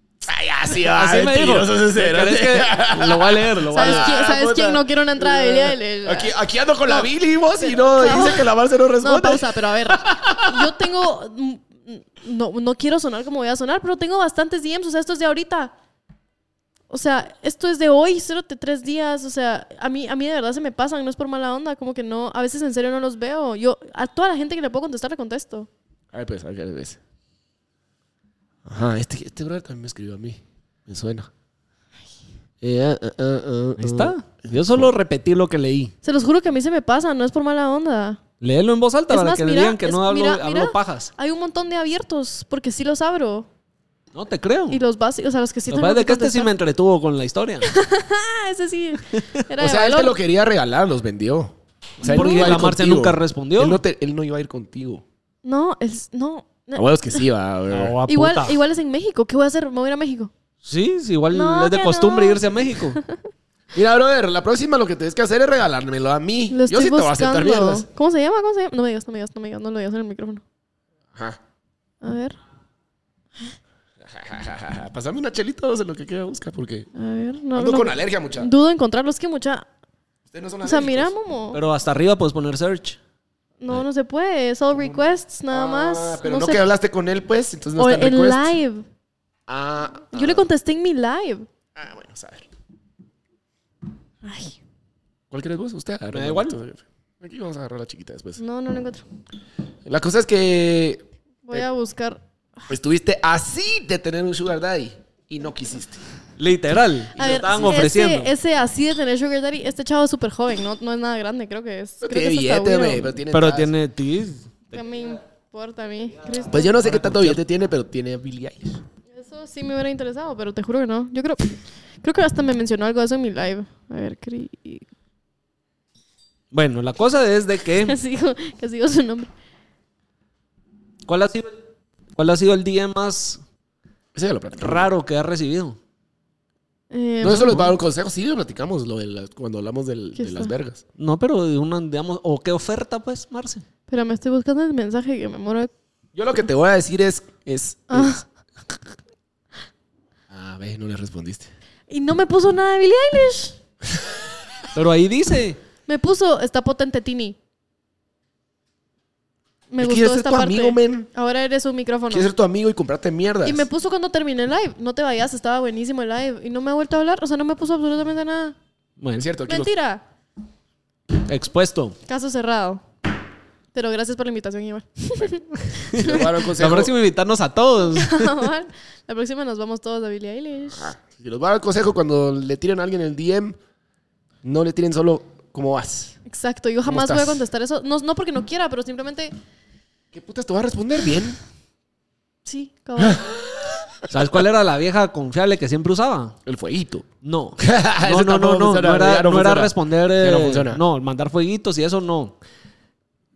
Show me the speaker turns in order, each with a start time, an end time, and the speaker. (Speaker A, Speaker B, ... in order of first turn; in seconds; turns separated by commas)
Speaker A: 0.2-10.7, Speaker B: 0.9-4.2, Speaker C: 3.7-7.1, Speaker C: 7.6-8.5, Speaker C: 9.0-15.7, Speaker C: 16.9-25.7, Speaker A: 26.1-27.0, Speaker A: 28.7-31.3, Speaker A: 32.6-34.9, Speaker B: 33.8-35.9, Speaker C: 36.0-38.2, Speaker B: 38.4-41.1, Speaker C: 39.1-43.5, Speaker B: 44.1-44.8, Speaker C: 44.7-46.5, Speaker B: 45.7-47.7, Speaker C: 47.6-50.1, Speaker B: 49.1-49.4, Speaker A: 49.6-55.0, Speaker B: 52.0-53.8, Speaker C: 52.0-52.6, Speaker C: 55.4-57.2, Speaker A: 56.8-58.0, Speaker B: 57.7-58.6, Speaker C: 58.1-60.3, Speaker B: 60.6-63.0, Speaker C: 61.3-63.2, Speaker A: 63.7-67.9, Speaker C: 66.5-70.4, Speaker C: 72.0-72.4, Speaker A: 74.0-76.9, Speaker C: 77.0-79.7, Speaker A: 77.5-78.5, Speaker A: 80.3-81.1, Speaker C: 80.6-81.6, Speaker B: 81.5-83.0, Speaker C: 83.6-86.7, Speaker A: 84.7-88.5, Speaker C: 87.8-88.8, Speaker A: 89.5-90.5, Speaker C: 90.1-91.5, Speaker A: 91.8-92.5, Speaker C: 94.2-94.6, Speaker A: 95.3-98.4, Speaker B: 96.1-96.6, Speaker C: 98.4-99.0, Speaker A: 99.9-101.7, Speaker C: 101.5-102.2, Speaker A: 102.7-106.0, Speaker B: 106.4-108.3, Speaker A: 107.2-107.8, Speaker C: 107.2-113.2, Speaker A: 112.0-113.7, Speaker B: 113.3-114.8, Speaker C: 114.7-116.8, Speaker A: 116.5-118.8, Speaker B: 116.8-117.4, Speaker C: 119.1-124.8, Speaker B: 126.5-128.0, Speaker C: 127.8-129.3, Speaker B: 131.1-131.6, Speaker B: 132.1-133.4, Speaker A: 134.2-134.9, Speaker B: 134.6-135.8, Speaker C: 136.9-137.7, Speaker A: 137.2-140.8, Speaker C: 140.2-140.5, Speaker B: 141.0-143.7, Speaker C: 143.9-145.7, Speaker A: 146.2-148.2, Speaker C: 147.9-148.2, Speaker A: 150.3-151.5, Speaker C: 151.9-153.6, Speaker B: 154.7-155.6, Speaker C: 155.9-157.4, Speaker C: 159.7-162.3, Speaker A: 159.8-161.1, Speaker A: 162.1-163.7, Speaker C: 163.4-168.6, Speaker B: 169.0-169.3, Speaker A: 169.2-169.7, Speaker C: 169.5-170.0, Speaker B: 171.2-172.0, Speaker C: 172.1-172.8, Speaker C: 173.7-176.3, Speaker B: 175.8-178.5, Speaker A: 175.9-176.9, Speaker C: 177.9-180.9, Speaker A: 180.7-183.6, Speaker A: 184.4-186.2, Speaker C: 186.3-189.3, Speaker A: 186.8-187.4, Speaker A: 190.1-191.4, Speaker C: 192.4-193.3, Speaker A: 193.0-193.8, Speaker B: 194.1-196.4, Speaker A: 196.5-197.1, Speaker B: 197.2-202.4, Speaker A: 197.6-200.8